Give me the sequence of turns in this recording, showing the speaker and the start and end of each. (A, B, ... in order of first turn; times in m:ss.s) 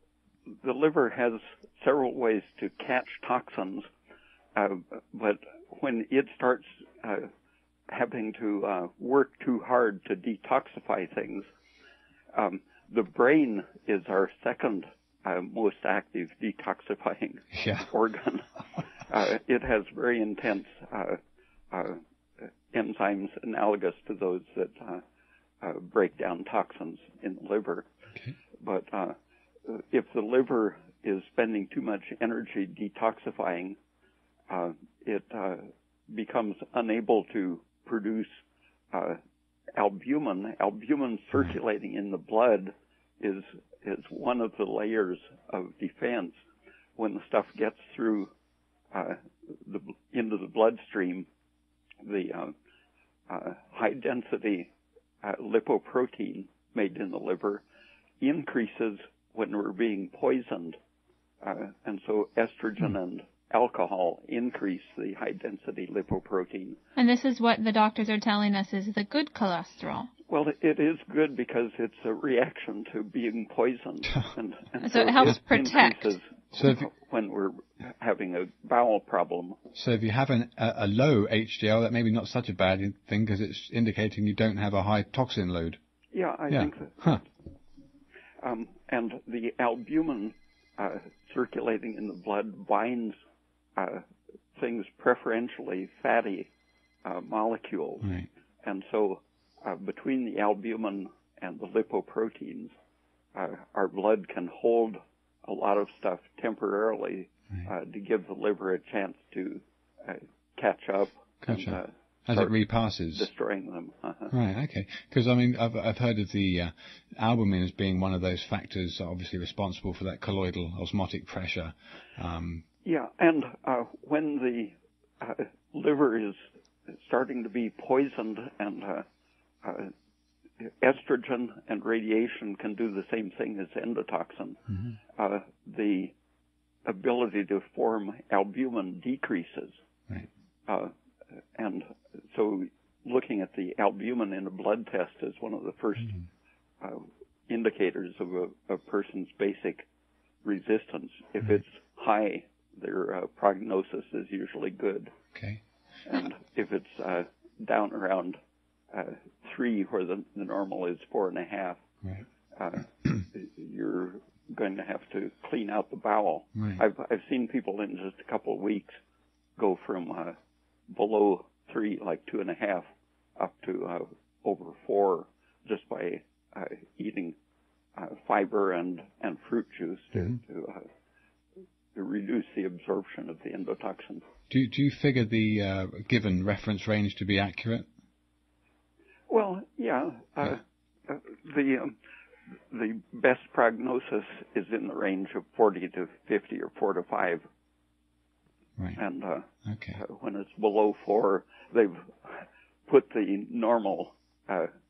0:00.6-0:03.8 A
0:04.5-0:07.3 A
0:07.9-0:11.5 A
0:12.3-0:21.2 A
0:17.5-0:17.9 B
0:21.7-0:25.0 A
0:25.6-0:27.9 A
0:28.6-0:33.8 A
0:34.5-0:38.3 A
0:38.9-0:39.2 A
0:39.8-0:46.4 A
0:47.0-0:48.3 A
0:48.9-0:51.3 A
0:52.0-0:52.5 A
0:53.3-0:54.7 A
0:55.2-0:57.6 A
0:58.2-1:00.8 A
1:01.4-1:06.8 A
1:07.0-1:10.1 C
1:10.3-1:19.6 A
1:14.8-1:16.1 C
1:16.5-1:16.8 B
1:19.7-1:25.8 B
1:26.1-1:27.2 A
1:26.5-1:27.2 B
1:28.4-1:33.2 A
1:33.8-1:36.5 A
1:37.0-1:38.1 A
1:38.6-1:42.7 A
1:43.3-1:52.5 A
1:51.4-1:53.3 B
1:53.1-1:54.3 A
1:54.3-2:02.6 B
2:02.8-2:09.0 A
2:09.6-2:09.9 A
2:10.6-2:16.1 A
2:16.8-2:19.8 A
2:20.7-2:20.9 A
2:21.5-2:26.2 A
2:26.8-2:29.9 A
2:30.4-2:35.1 A
2:35.3-2:35.6 B
2:36.0-2:38.4 A
2:38.9-2:41.8 A
2:42.5-2:49.0 A
2:46.6-2:46.8 B
2:49.6-2:50.4 A
2:50.9-2:52.8 A
2:53.4-2:57.4 A
2:58.0-3:00.9 A
3:01.9-3:04.2 A
3:04.5-3:07.9 B
3:09.3-3:11.9 A
3:12.7-3:17.4 A
3:19.0-3:24.7 A
3:19.6-3:20.0 B